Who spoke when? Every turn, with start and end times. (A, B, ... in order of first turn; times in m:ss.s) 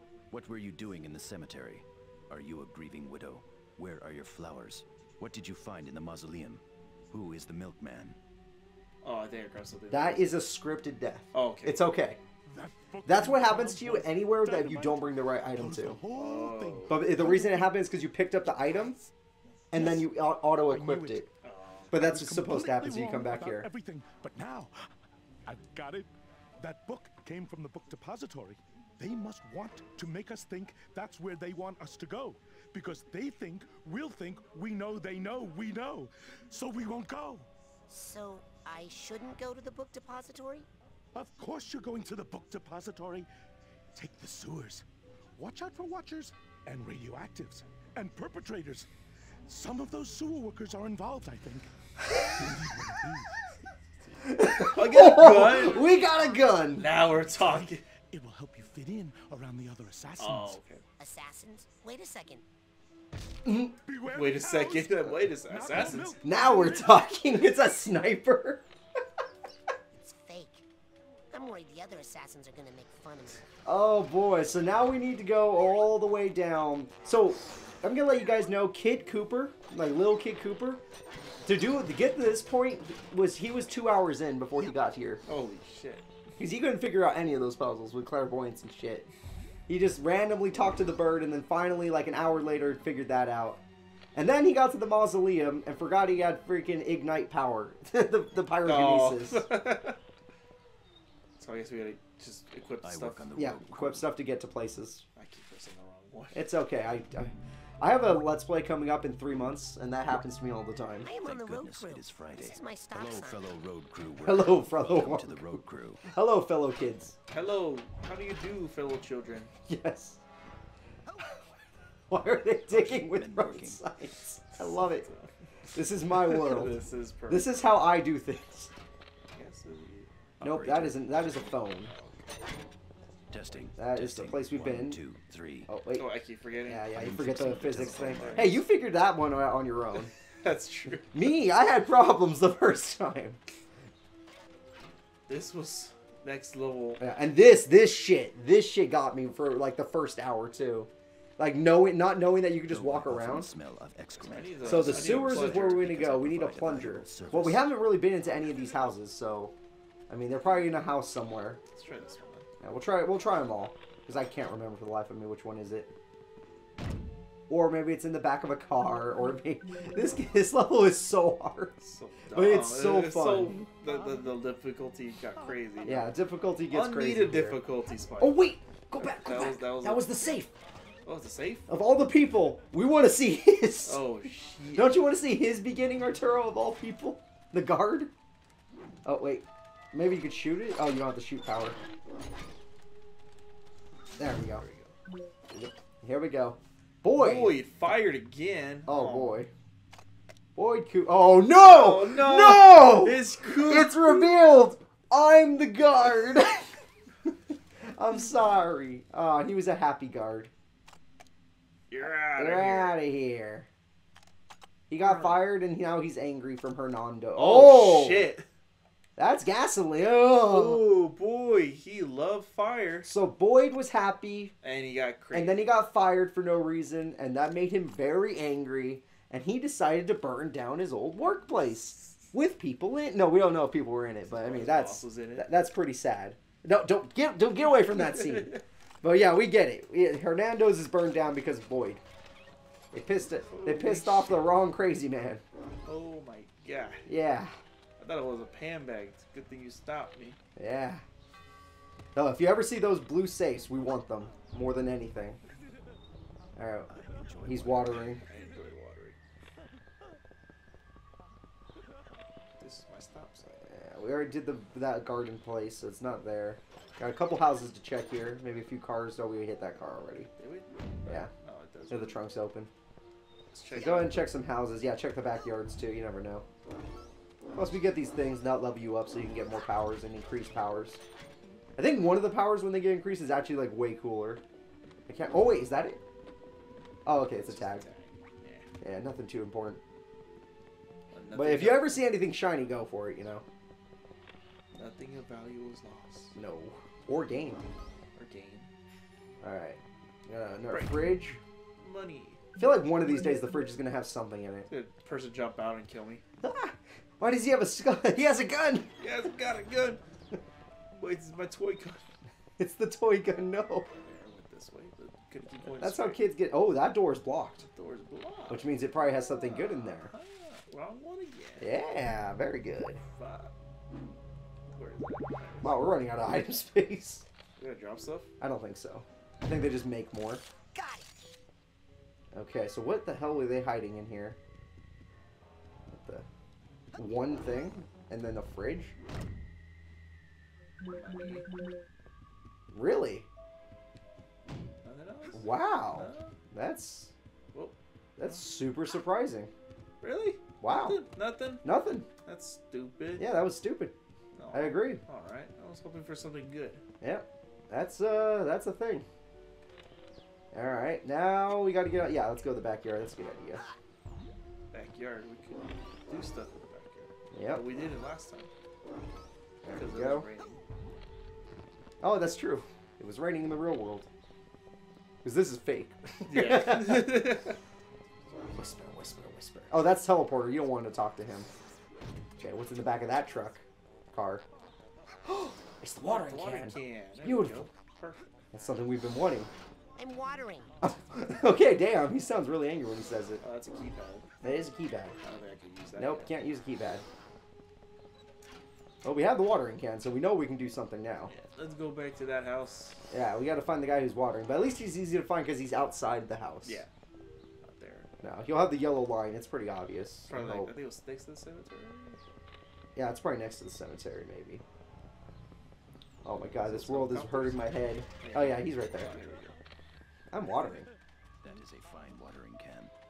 0:00.3-0:08.2 A
0:09.0-0:10.4 B
0:09.9-0:12.2 C
0:11.3-0:11.9 B
0:12.5-0:17.7 D
0:13.1-0:16.0 C
0:16.1-0:17.2 B
0:16.9-0:19.0 C
0:19.7-0:21.3 C
0:19.7-0:20.1 D
0:20.6-0:21.3 D
0:21.4-0:22.0 B
0:21.9-0:23.7 C
0:21.9-0:24.7 D
0:25.5-0:37.5 D
0:37.9-0:40.7 E
0:41.2-0:43.3 D
0:43.9-0:44.8 D
0:45.4-0:48.9 D
0:49.5-0:53.4 D
0:54.1-0:56.0 B
0:54.2-0:56.9 C
0:56.8-0:57.8 B
0:57.3-1:00.6 D
1:00.2-1:00.8 B
1:01.0-1:02.4 E
1:03.4-1:03.8 C
1:03.9-1:07.1 D
1:04.1-1:06.2 B
1:06.2-1:08.6 C
1:09.9-1:10.6 E
1:11.3-1:13.4 E
1:13.6-1:20.8 C
1:21.4-1:25.2 C
1:25.3-1:26.1 B
1:26.4-1:29.1 C
1:29.7-1:33.6 C
1:34.2-1:39.5 C
1:38.6-1:40.0 B
1:41.4-1:43.3 B
1:42.8-1:44.1 A
1:43.4-1:45.0 C
1:45.2-1:46.5 B
1:46.3-1:51.1 C
1:51.0-1:53.5 E
1:51.1-1:56.0 A
1:54.2-1:57.2 C
1:57.3-1:59.5 B
1:59.7-2:00.2 C
2:02.1-2:05.1 C
2:02.7-2:03.8 A
2:04.6-2:05.3 B
2:05.7-2:06.8 C
2:06.1-2:07.6 B
2:07.3-2:08.7 C
2:09.3-2:12.4 B
2:10.4-2:11.9 C
2:10.5-2:10.9 A
2:13.3-2:15.7 A
2:13.8-2:15.0 C
2:15.7-2:16.1 C
2:16.0-2:17.0 B
2:16.7-2:20.1 C
2:16.9-2:18.6 A
2:17.5-2:18.6 B
2:20.4-2:21.2 B
2:21.1-2:23.4 C
2:25.3-2:27.0 B
2:27.0-2:33.5 C
2:32.7-2:37.7 A
2:34.2-2:35.9 B
2:34.6-2:39.5 C
2:40.1-2:41.6 C
2:41.7-2:42.5 B
2:42.6-2:45.9 C
2:47.5-2:51.8 C
2:51.8-2:56.1 B
2:52.3-2:53.6 C
2:55.8-2:57.6 C
2:56.7-2:58.4 B
2:58.2-3:00.5 C
2:59.0-3:00.2 B
3:01.0-3:01.7 B
3:01.7-3:04.0 C
3:03.8-3:05.0 B
3:04.8-3:08.1 C
3:09.0-3:11.8 C
3:14.2-3:14.7 C
3:14.5-3:14.9 B
3:15.5-3:17.6 C
3:17.1-3:19.4 B
3:18.9-3:19.5 C
3:20.6-3:26.7 C
3:21.6-3:24.3 B
3:27.8-3:30.5 C
3:31.9-3:33.0 B
3:32.0-3:33.7 C
3:34.9-3:38.3 C
3:35.0-3:35.4 B
3:37.4-3:38.5 B
3:39.2-3:40.8 C
3:40.5-3:43.1 B
3:43.0-3:44.5 C
3:44.6-3:45.7 B
3:45.3-4:02.0 C
3:54.3-3:55.5 B
3:58.0-3:58.6 B
4:02.9-4:05.4 C
4:03.4-4:04.4 B
4:05.8-4:07.1 B
4:07.1-4:07.6 C
4:08.0-4:10.4 B
4:10.6-4:11.0 C
4:12.2-4:15.4 C
4:16.6-4:16.9 C
4:16.9-4:18.2 A
4:17.4-4:18.2 C
4:17.7-4:19.2 B
4:22.6-4:23.6 B
4:23.6-4:30.3 C
4:30.4-4:32.2 B
4:31.9-4:32.7 C
4:33.5-4:34.4 B
4:33.7-4:36.4 C
4:37.5-4:41.0 C
4:41.8-4:44.4 C
4:45.1-4:46.0 C
4:47.0-4:47.9 C
4:47.4-4:48.7 B
4:48.8-4:49.8 C
4:51.1-4:52.0 B
4:51.3-4:53.4 C
4:54.7-4:56.4 B
4:56.4-4:57.6 C
4:58.2-4:58.7 B
4:59.4-5:01.4 C
5:00.7-5:01.1 B
5:01.8-5:02.4 B
5:02.6-5:04.7 C
5:04.7-5:06.2 B
5:06.4-5:08.9 C
5:09.0-5:10.0 B
5:10.9-5:12.0 B
5:12.6-5:13.9 C
5:13.9-5:16.2 B
5:15.8-5:17.7 C
5:17.7-5:18.7 B
5:18.5-5:20.1 C
5:19.4-5:21.7 B
5:21.6-5:23.0 C
5:23.1-5:23.5 B
5:24.7-5:25.8 B
5:25.6-5:27.2 C
5:27.6-5:28.3 B
5:28.4-5:30.4 C
5:30.8-5:31.0 E
5:32.3-5:34.4 C
5:35.9-5:36.2 C
5:37.0-5:38.9 C
5:40.9-5:41.5 B
5:42.7-5:43.3 C
5:44.8-5:46.3 B
5:45.3-5:47.1 C
5:47.5-5:48.4 B
5:48.2-5:49.5 C
5:50.0-5:51.7 B
5:50.6-5:51.0 C
5:51.6-5:52.1 C
5:52.2-5:53.3 B
5:53.2-5:53.9 C
5:54.4-5:56.8 B
5:54.5-5:55.0 C
5:57.0-5:59.1 C
6:00.5-6:03.6 C
6:04.7-6:08.5 B
6:07.3-6:07.6 C
6:09.6-6:10.3 C
6:09.7-6:10.6 B
6:12.0-6:14.1 C
6:15.2-6:17.3 C
6:16.3-6:17.6 B
6:18.5-6:21.5 C
6:22.4-6:24.4 C
6:25.2-6:27.7 C
6:26.1-6:28.2 B
6:28.5-6:29.5 C
6:30.0-6:30.7 E
6:30.8-6:33.4 C
6:33.4-6:34.3 B
6:34.4-6:35.2 C
6:35.2-6:36.3 B
6:36.0-6:37.0 C
6:39.0-6:41.3 C
6:41.3-6:43.0 B
6:43.1-6:46.8 C
6:46.6-6:46.9 B
6:47.6-6:48.1 B
6:48.2-6:50.7 C
6:50.3-6:52.2 B
6:53.0-6:54.6 C
6:56.2-6:59.2 C
6:56.5-6:59.6 B
7:00.3-7:00.9 C
7:01.4-7:02.9 A